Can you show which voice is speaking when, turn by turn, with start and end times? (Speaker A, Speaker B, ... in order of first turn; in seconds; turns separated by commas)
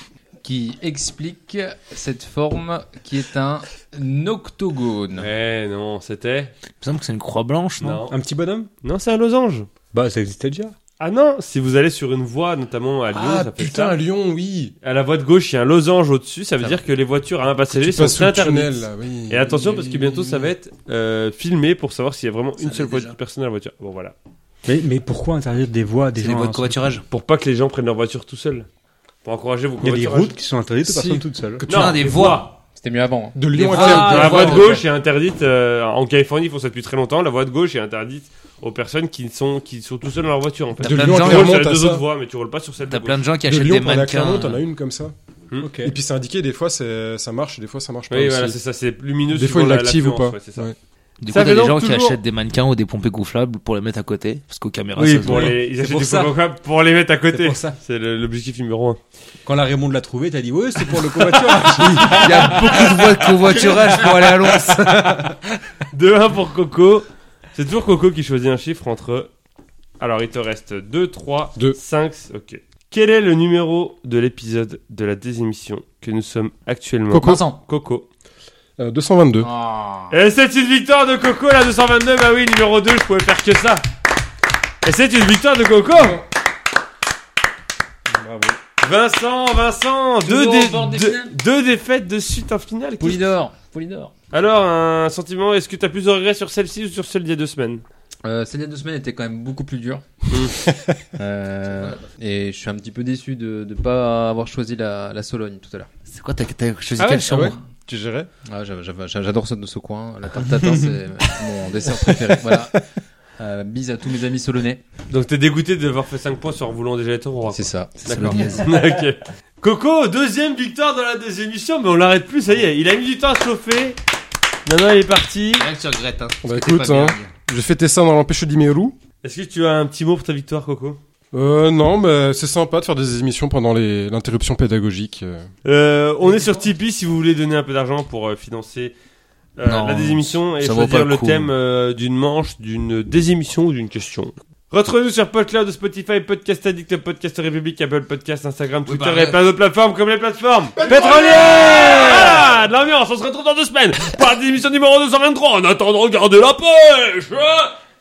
Speaker A: 0.4-5.3, Speaker B: 5.2-6.5, Speaker C: 6.8-8.0, Speaker B: 7.8-8.2, Speaker D: 7.8-8.7, Speaker B: 8.8-9.7, Speaker D: 9.9-10.8, Speaker B: 11.0-14.0, Speaker E: 13.1-14.7, Speaker B: 14.8-24.1, Speaker E: 17.7-19.9, Speaker C: 22.6-23.2, Speaker D: 24.6-26.8, Speaker C: 26.1-27.1, Speaker B: 27.1-28.7, Speaker B: 29.2-30.4, Speaker D: 29.8-31.9, Speaker A: 30.9-31.2, Speaker B: 31.7-32.5, Speaker C: 31.7-32.5, Speaker A: 32.8-33.4, Speaker E: 33.4-34.8, Speaker D: 33.5-34.8, Speaker B: 33.7-43.3, Speaker C: 40.8-41.6, Speaker E: 40.8-42.0, Speaker C: 42.9-44.6, Speaker E: 43.5-45.1, Speaker D: 45.6-46.0, Speaker E: 45.8-48.6, Speaker B: 48.1-50.7, Speaker E: 49.3-50.8, Speaker C: 51.2-55.6, Speaker B: 51.3-52.2, Speaker D: 55.0-56.3, Speaker B: 55.0-59.0, Speaker D: 57.4-57.8, Speaker D: 59.5-64.8, Speaker C: 61.8-65.4, Speaker B: 65.9-69.3, Speaker B: 70.0-78.1, Speaker E: 77.1-77.5, Speaker A: 77.1-77.6, Speaker E: 78.8-79.5, Speaker A: 79.4-80.2, Speaker B: 80.1-83.8, Speaker B: 84.8-86.2, Speaker A: 86.0-86.2, Speaker D: 88.1-88.6, Speaker B: 88.8-93.3, Speaker A: 90.2-91.3, Speaker A: 93.0-94.1, Speaker B: 94.3-97.8, Speaker A: 98.2-100.0, Speaker B: 100.3-100.6, Speaker E: 100.7-100.9, Speaker A: 101.2-105.9, Speaker C: 106.1-107.6, Speaker E: 107.0-108.3, Speaker A: 108.5-112.8, Speaker D: 110.6-110.9, Speaker A: 113.4-114.8, Speaker B: 115.1-124.0, Speaker A: 117.5-118.6, Speaker C: 118.1-118.9, Speaker B: 124.7-125.7, Speaker C: 125.5-127.3, Speaker E: 126.4-129.0, Speaker B: 129.2-131.0, Speaker E: 131.3-135.5, Speaker B: 135.7-138.9, Speaker B: 139.6-157.8, Speaker C: 139.6-141.5, Speaker C: 148.8-149.4, Speaker E: 150.8-152.3, Speaker A: 150.9-152.4